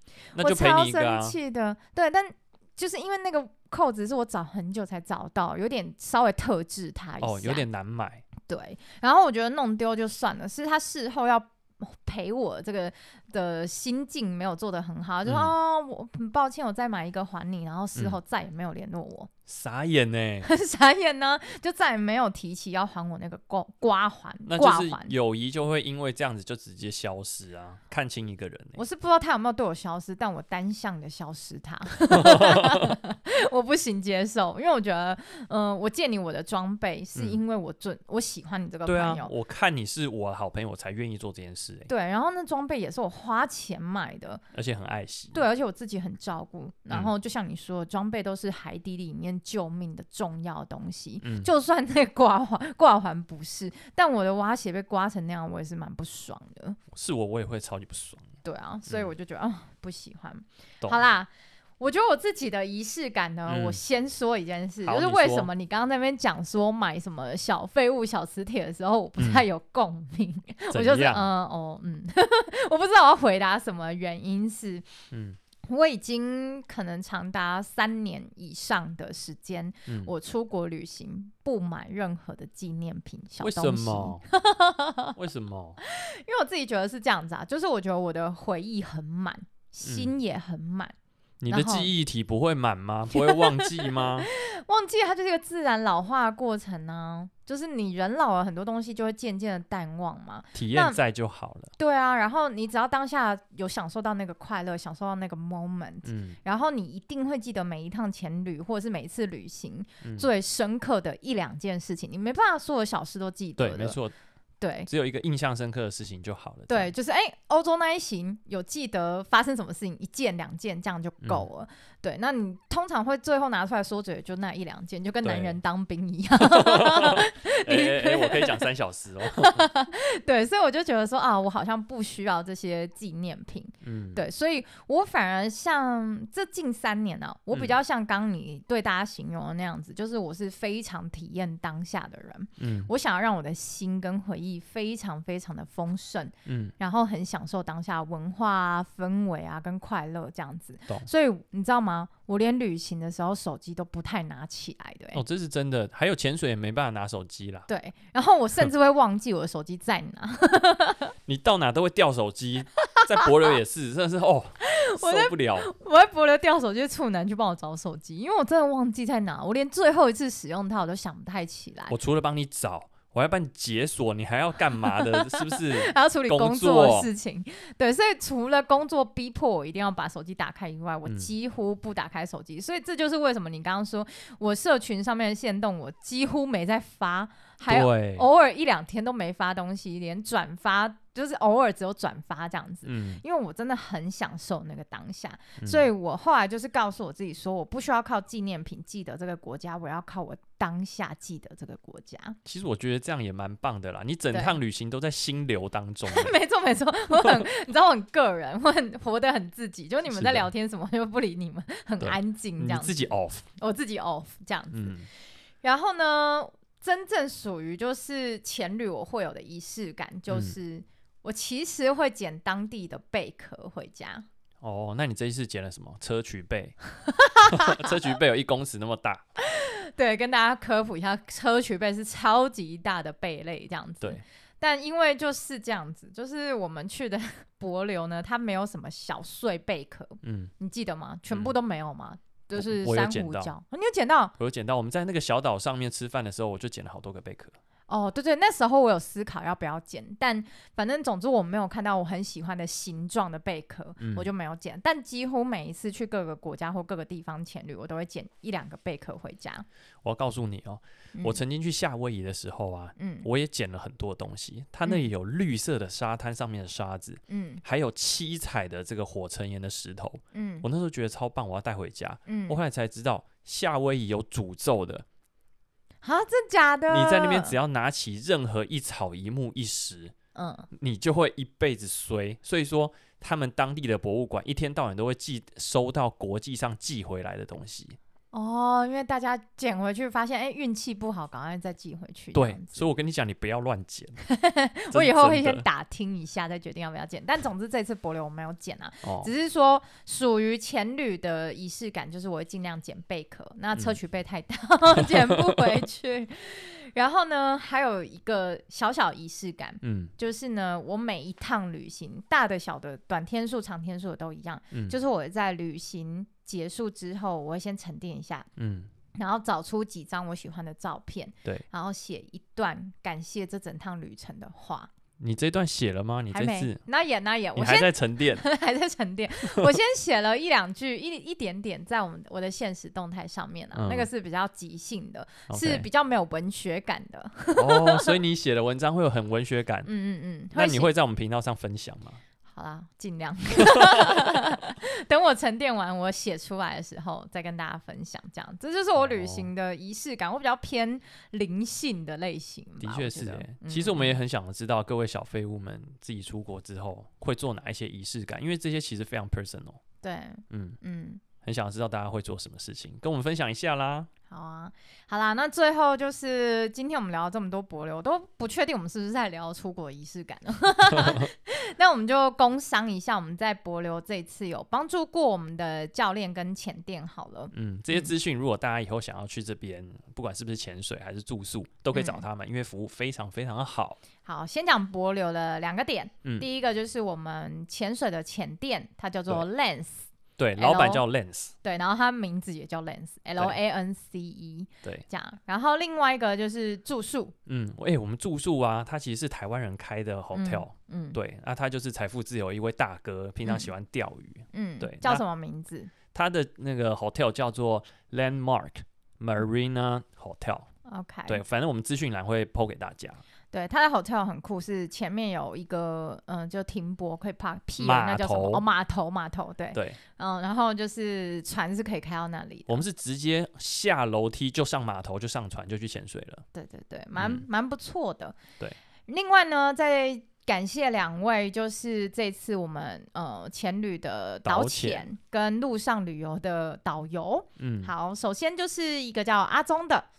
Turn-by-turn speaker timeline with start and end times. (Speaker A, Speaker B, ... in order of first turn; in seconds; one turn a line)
Speaker A: 0.3-1.4
Speaker B: 0.4-7.7
Speaker A: 7.2-8.2
Speaker B: 8.4-19.3
Speaker A: 15.3-15.5
Speaker A: 19.5-20.5
Speaker B: 20.4-25.1
Speaker A: 24.5-28.8
Speaker B: 28.8-39.3
Speaker A: 32.1-32.9
Speaker A: 37.2-37.4
Speaker A: 38.9-41.9
Speaker B: 41.9-44.4
Speaker A: 44.5-45.4
Speaker B: 45.3-56.8
Speaker A: 51.2-51.5
Speaker A: 56.9-58.3
Speaker B: 58.4-74.9
Speaker A: 63.5-63.8
Speaker A: 64.8-65.5
Speaker A: 69.2-69.5
Speaker A: 70.7-71.3
Speaker A: 75.1-75.4
Speaker B: 75.7-85.2
Speaker A: 79.9-80.1
Speaker A: 83.4-84.2
Speaker A: 85.2-85.8
Speaker B: 85.8-91.0
Speaker A: 89.8-90.1
Speaker A: 91.4-94.3
Speaker B: 91.5-91.9
Speaker B: 93.1-101.0
Speaker A: 100.5-101.7
Speaker B: 101.8-114.0
Speaker A: 106.0-106.4
Speaker A: 110.0-110.3
Speaker A: 113.6-114.2
Speaker B: 114.6-114.9
Speaker A: 114.9-116.9
Speaker B: 116.7-128.6
Speaker A: 125.2-125.6
Speaker A: 126.4-129.7
Speaker B: 129.3-155.2
Speaker A: 133.8-134.2
Speaker A: 142.6-142.9
Speaker A: 146.5-146.7
Speaker A: 155.1-157.7
Speaker B: 157.7-161.1
Speaker A: 161.3-165.7
Speaker B: 162.9-163.3
Speaker B: 164.7-171.9
Speaker A: 171.9-177.1
Speaker B: 174.8-202.4
Speaker A: 181.1-181.3
Speaker A: 187.7-188.3
Speaker A: 192.8-193.2
Speaker A: 195.6-195.9
Speaker A: 202.4-206.3
Speaker B: 204.3-204.6
Speaker B: 206.1-215.0
Speaker A: 207.1-207.5
Speaker A: 210.1-210.5
Speaker A: 212.0-213.5
Speaker A: 214.7-215.1
Speaker B: 215.6-224.2
Speaker A: 220.3-220.5
Speaker A: 224.6-226.8
Speaker B: 227.0-228.0
Speaker A: 227.5-229.2
Speaker B: 229.4-244.3
Speaker A: 240.2-240.5
Speaker A: 241.3-241.6
Speaker A: 242.6-243.5
Speaker A: 244.4-247.6
Speaker B: 247.9-259.7
Speaker A: 254.0-254.3
Speaker A: 260.0-275.1
Speaker B: 261.1-261.4
Speaker B: 263.0-263.3
Speaker B: 264.9-265.1
Speaker B: 267.3-267.6
Speaker B: 270.3-270.7
Speaker B: 272.3-272.6
Speaker B: 276.0-277.6
Speaker A: 276.9-280.1
Speaker B: 280.4-280.7
Speaker A: 280.7-288.0
Speaker B: 288.3-292.9
Speaker A: 292.4-294.2
Speaker B: 294.2-318.5
Speaker A: 294.9-295.6
Speaker A: 299.0-299.3
Speaker A: 305.0-305.3
Speaker A: 309.8-310.1
Speaker A: 318.6-318.9
Speaker B: 319.1-324.9
Speaker A: 325.2-326.8
Speaker B: 326.3-338.2
Speaker A: 327.6-328.4
Speaker A: 329.4-329.7
Speaker A: 333.8-334.1
Speaker A: 335.5-335.9
Speaker A: 337.6-339.9
Speaker B: 339.9-340.9
Speaker A: 340.6-342.2
Speaker B: 342.5-354.2
Speaker A: 343.7-344.4
Speaker A: 349.0-349.5
Speaker A: 352.8-359.8
Speaker B: 360.0-361.2
Speaker A: 360.5-360.8
Speaker A: 361.4-364.1
Speaker B: 364.3-378.1
Speaker A: 370.9-371.3
Speaker A: 377.5-384.0
Speaker B: 381.9-382.2
Speaker B: 384.2-391.0
Speaker A: 390.4-391.5
Speaker B: 391.6-397.4
Speaker A: 397.5-405.2
Speaker B: 400.3-401.2
Speaker B: 404.5-405.9
Speaker A: 406.1-410.7
Speaker B: 410.9-411.4
Speaker A: 411.3-413.2
Speaker B: 413.5-422.8
Speaker A: 417.8-418.6
Speaker A: 419.7-420.0
Speaker A: 422.7-426.4
Speaker B: 426.5-428.4
Speaker A: 427.2-427.4
Speaker B: 429.1-440.1
Speaker A: 434.4-435.1
Speaker A: 437.6-437.9